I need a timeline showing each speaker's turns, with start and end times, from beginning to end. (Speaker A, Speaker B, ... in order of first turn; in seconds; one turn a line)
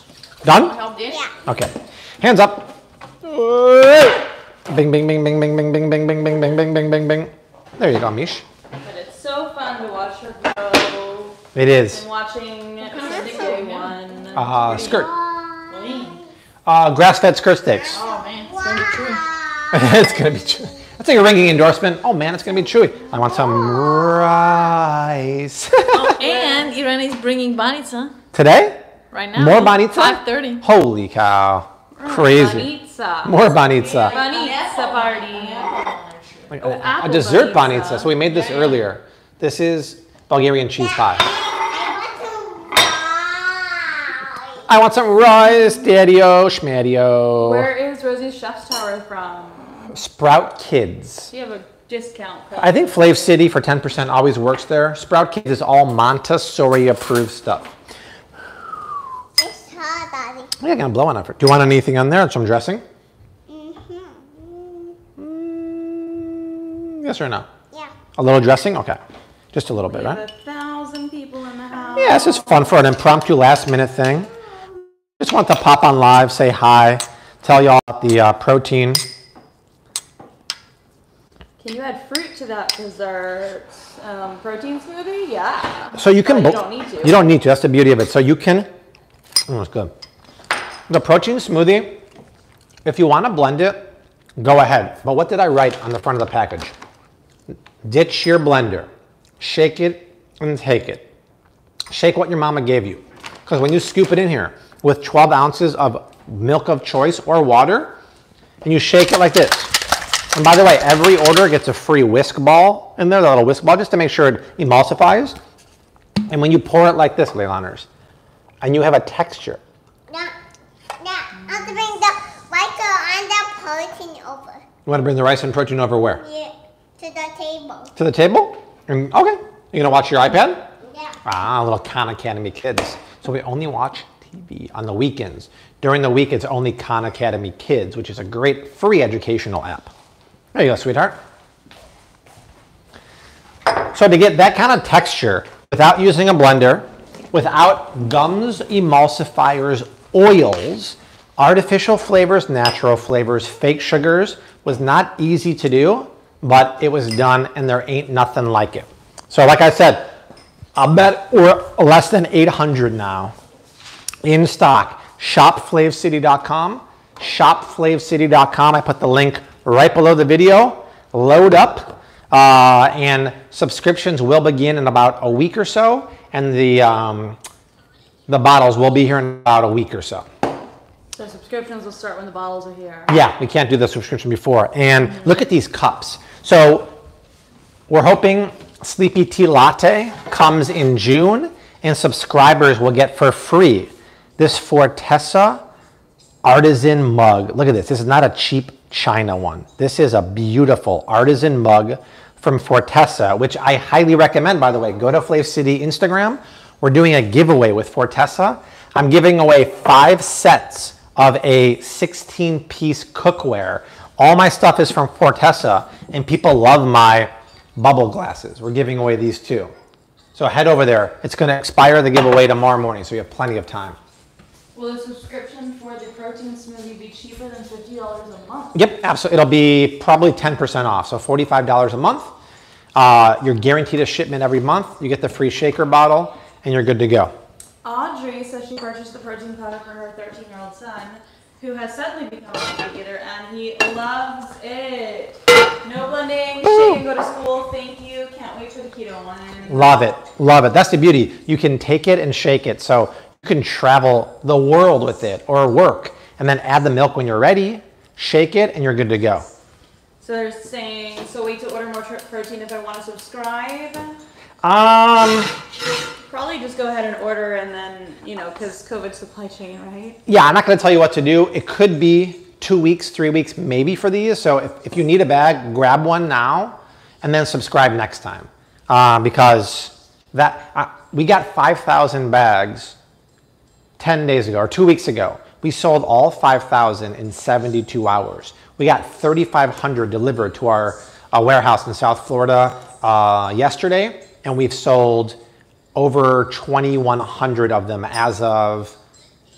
Speaker A: 0.4-0.8
Speaker B: 0.7-1.3
Speaker A: 1.4-8.4
Speaker C: 8.8-15.1
Speaker A: 11.5-12.0
Speaker B: 13.0-13.9
Speaker D: 13.1-13.5
Speaker A: 14.3-15.1
Speaker D: 14.7-16.1
Speaker B: 15.7-16.2
Speaker A: 16.7-18.0
Speaker B: 17.9-19.2
Speaker D: 17.9-20.0
Speaker A: 19.7-26.2
Speaker D: 23.4-24.5
Speaker B: 25.9-28.2
Speaker C: 26.2-26.6
Speaker A: 28.3-32.7
Speaker B: 29.1-30.7
Speaker C: 32.0-35.8
Speaker A: 33.2-34.2
Speaker B: 33.8-36.5
Speaker A: 36.5-41.3
Speaker C: 36.6-38.8
Speaker D: 41.2-44.6
Speaker A: 44.7-47.7
Speaker C: 47.4-49.9
Speaker A: 49.9-51.3
Speaker C: 51.3-53.3
Speaker A: 52.6-57.7
Speaker D: 59.4-60.5
Speaker A: 60.6-62.8
Speaker D: 63.5-64.9
Speaker A: 65.2-67.5
Speaker A: 68.2-69.0
Speaker A: 69.5-70.2
Speaker C: 69.9-72.7
Speaker A: 72.0-74.3
Speaker A: 75.2-79.0
Speaker C: 81.6-87.3
Speaker A: 86.0-88.7
Speaker A: 89.5-89.9
Speaker A: 90.9-92.0
Speaker A: 92.8-96.7
Speaker A: 97.8-98.9
Speaker A: 99.4-101.1
Speaker A: 101.9-108.0
Speaker A: 108.6-109.7
Speaker A: 110.3-115.4
Speaker A: 116.3-117.9
Speaker A: 118.6-119.6
Speaker D: 121.0-124.6
Speaker A: 124.9-126.2
Speaker D: 126.2-127.9
Speaker A: 128.0-130.7
Speaker D: 130.9-131.2
Speaker A: 131.2-139.9
Speaker A: 140.5-141.2
Speaker A: 143.9-160.2
Speaker A: 160.8-163.3
Speaker A: 164.2-177.4
Speaker A: 178.3-180.3
Speaker C: 181.1-183.1
Speaker A: 183.1-186.9
Speaker A: 187.9-195.6
Speaker A: 196.4-219.7
Speaker A: 220.4-224.0
Speaker C: 224.8-228.8
Speaker A: 228.7-232.3
Speaker A: 232.9-237.3
Speaker C: 237.8-249.9
Speaker A: 249.7-259.5
Speaker C: 260.2-264.2
Speaker A: 264.6-265.5
Speaker C: 266.3-270.2
Speaker A: 270.3-283.0
Speaker A: 284.0-295.4
Speaker A: 295.9-299.0